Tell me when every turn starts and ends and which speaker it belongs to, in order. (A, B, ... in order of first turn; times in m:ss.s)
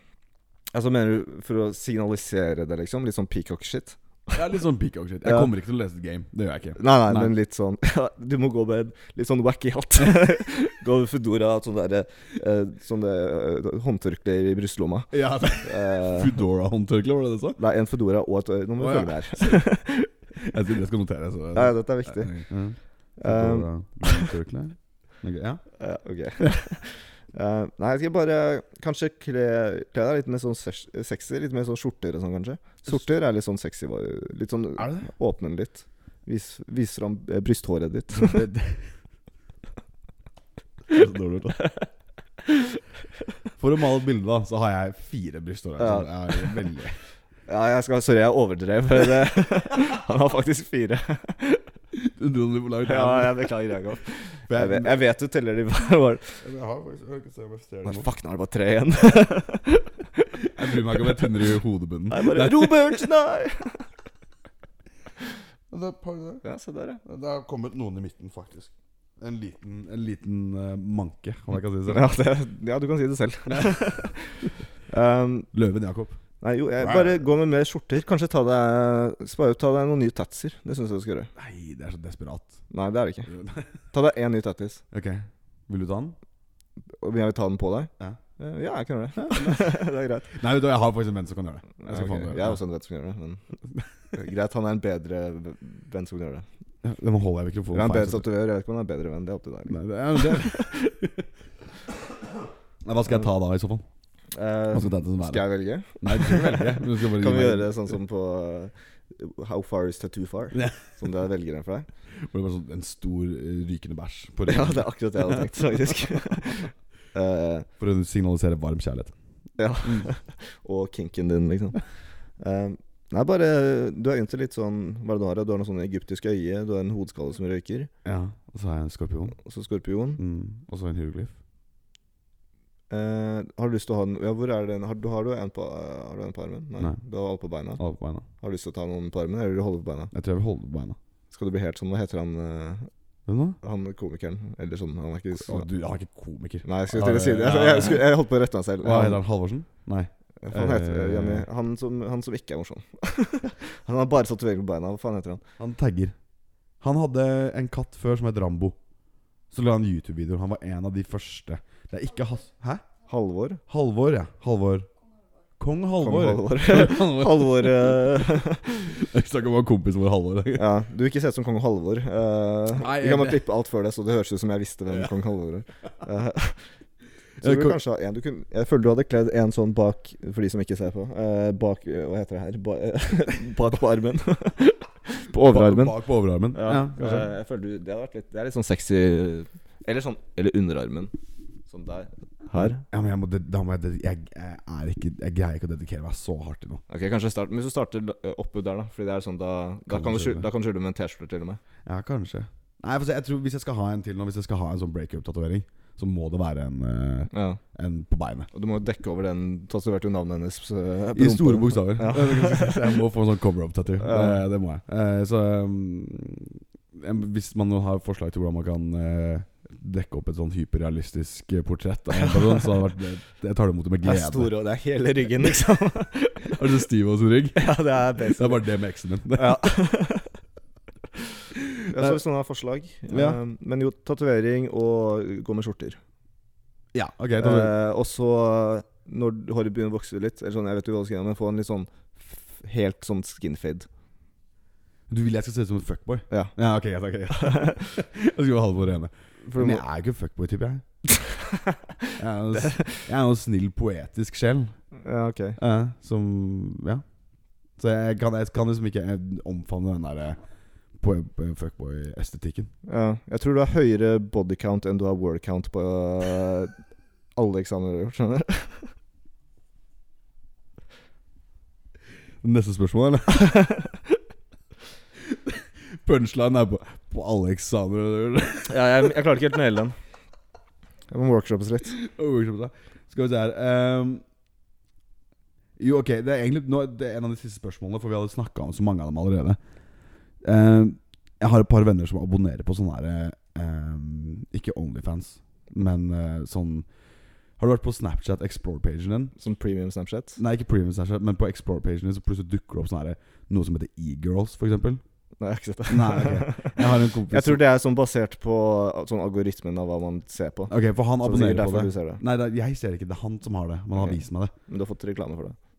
0:00.7-0:04.3 A
0:04.3-0:07.3 B
0:05.2-0:05.5 A
0:06.8-0:16.4 A
0:15.1-0:17.6 B
0:17.6-0:20.1 A
0:18.8-0:19.7 B
0:20.4-0:25.6 B
0:21.5-0:22.5 A
0:23.2-0:24.3 A
0:25.8-0:38.4 A
0:34.8-0:35.1 B
0:38.2-0:38.8 B
0:40.9-0:41.6 B
0:41.5-0:41.9 A
0:42.4-0:42.8 A
0:43.6-0:47.0 B
0:45.8-0:46.6 A
0:47.5-0:51.7 A
0:51.9-0:53.5 B
0:52.8-0:56.4 A
0:54.5-0:55.0 B
0:56.4-0:58.1 B
0:57.8-1:01.3 A
1:00.5-1:03.0 B
1:02.1-1:03.9 A
1:05.7-1:06.4 B
1:06.4-1:07.0 A
1:07.0-1:12.1 B
1:11.9-1:15.5 A
1:15.5-1:16.2 B
1:16.4-1:21.3 A
1:16.8-1:17.2 B
1:21.4-1:22.6 B
1:22.7-1:23.3 A
1:23.3-1:23.6 B
1:23.9-1:24.8 A
1:24.9-1:26.2 B
1:27.0-1:30.3 A
1:29.2-1:32.6 B
1:31.8-1:33.4 A
1:34.1-1:36.4 A
1:36.8-1:38.2 B
1:37.7-1:40.9 A
1:39.7-1:41.2 B
1:42.8-1:43.8 B
1:44.3-1:51.9 A
1:44.7-1:47.9 B
1:50.5-1:50.8 B
1:52.3-1:55.4 B
1:54.5-1:57.7 A
1:57.8-1:59.1 B
1:59.6-2:01.8 A
1:59.8-2:00.1 B
2:02.4-2:07.9 A
2:08.0-2:09.4 B
2:09.4-2:10.2 A
2:10.2-2:11.3 B
2:12.9-2:17.8 A
2:17.8-2:18.2 B
2:18.4-2:20.1 A
2:20.1-2:21.0 B
2:21.3-2:22.9 A
2:23.3-2:23.6 B
2:23.6-2:25.6 A
2:25.4-2:28.0 B
2:26.6-2:29.2 A
2:28.8-2:31.4 B
2:30.4-2:35.4 A
2:35.6-2:36.2 B
2:36.8-2:38.8 B
2:39.5-2:42.8 B
2:43.1-2:43.6 A
2:43.7-2:44.9 B
2:45.6-2:48.2 B
2:46.0-2:48.9 A
2:48.9-2:50.6 B
2:50.6-2:56.7 A
2:52.7-2:53.4 B
2:57.4-2:57.8 B
2:57.4-3:06.0 A
3:05.4-3:07.3 B
3:06.5-3:11.1 A
3:11.7-3:12.8 A
3:12.9-3:16.8 B
3:16.9-3:21.6 A
3:19.9-3:20.4 B
3:21.8-3:28.5 B
3:27.3-3:27.6 A
3:28.5-3:33.0 A
3:31.1-3:44.5 B
3:34.0-3:34.4 A
3:42.1-3:42.9 A
3:44.0-3:46.6 A
3:46.5-3:47.7 B
3:47.5-3:48.6 A
3:48.2-3:49.7 B
3:49.3-3:50.3 A
3:51.6-3:52.1 B
3:51.9-3:56.0 A
3:53.1-3:53.4 B
3:56.9-3:57.7 B
3:57.4-4:03.9 A
4:05.1-4:10.8 B
4:07.4-4:07.7 A
4:09.4-4:09.8 A
4:11.3-4:13.1 A
4:12.2-4:14.8 B
4:14.9-4:15.6 A
4:15.6-4:17.0 B
4:17.8-4:20.4 B
4:21.0-4:22.7 B
4:22.8-4:26.7 A
4:27.3-4:28.9 A
4:32.4-4:33.6 B
4:35.3-4:39.0 B
4:38.7-4:40.0 A
4:41.1-4:41.9 A
4:41.9-4:44.2 B
4:45.8-4:49.6 B
4:50.4-4:56.9 B
4:57.6-4:59.4 B
4:59.4-5:00.4 A
5:00.4-5:05.0 B
5:05.4-5:12.2 A
5:05.9-5:07.6 B
5:10.7-5:14.5 B
5:14.0-5:15.6 A